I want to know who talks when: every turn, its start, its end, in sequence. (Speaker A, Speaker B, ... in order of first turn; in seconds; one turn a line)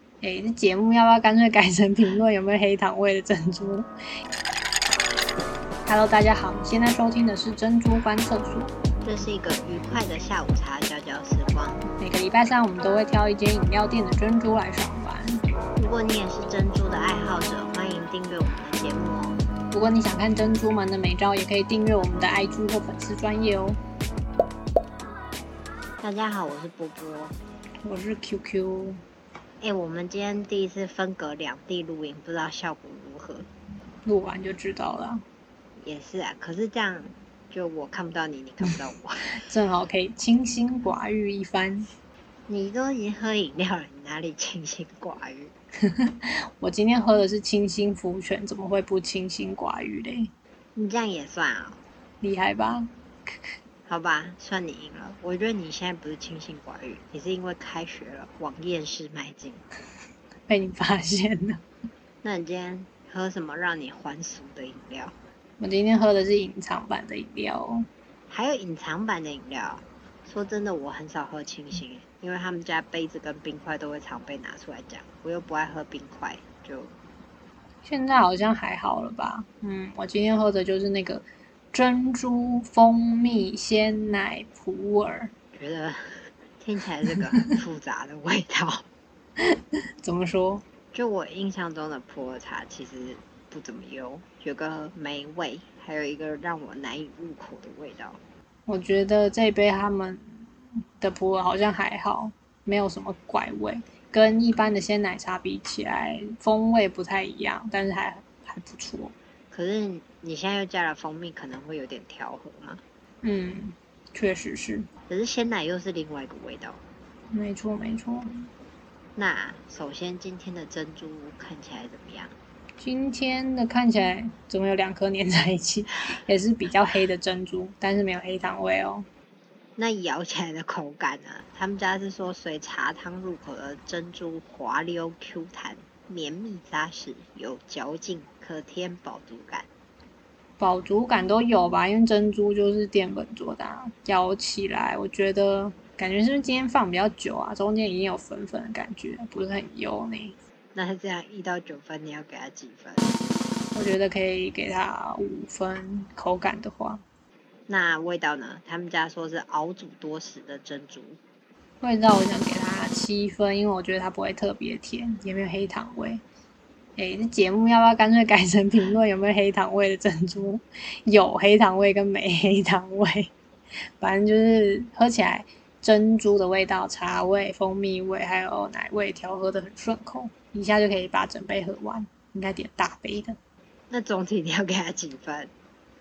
Speaker A: 0.2-3.9
Speaker A: 5.8-8.7
Speaker B: 9.0-11.9
Speaker A: 12.0-15.4
Speaker B: 15.8-19.4
Speaker A: 19.7-23.8
Speaker B: 26.0-27.4
Speaker A: 27.8-29.0
Speaker B: 29.6-33.5
Speaker A: 34.0-35.2
Speaker B: 35.8-39.5
Speaker A: 39.4-41.9
Speaker B: 42.5-45.5
Speaker A: 45.9-50.3
Speaker B: 50.7-51.8
Speaker A: 52.2-52.9
Speaker B: 53.9-59.6
Speaker A: 60.5-61.6
Speaker B: 62.2-65.2
Speaker A: 65.6-67.9
Speaker B: 68.3-77.0
Speaker A: 77.8-85.3
Speaker B: 85.5-88.8
Speaker A: 89.4-90.6
Speaker B: 90.9-98.2
Speaker A: 98.7-109.1
Speaker B: 109.5-112.8
Speaker A: 113.2-114.9
Speaker B: 115.1-116.8
Speaker A: 117.3-118.5
Speaker B: 119.2-122.3
Speaker A: 122.8-129.1
Speaker B: 129.8-139.7
Speaker A: 140.6-150.3
Speaker B: 150.7-153.2
Speaker A: 153.7-157.0
Speaker B: 157.7-161.2
Speaker A: 161.8-166.2
Speaker A: 166.9-173.3
Speaker A: 174.0-183.4
Speaker B: 183.9-185.5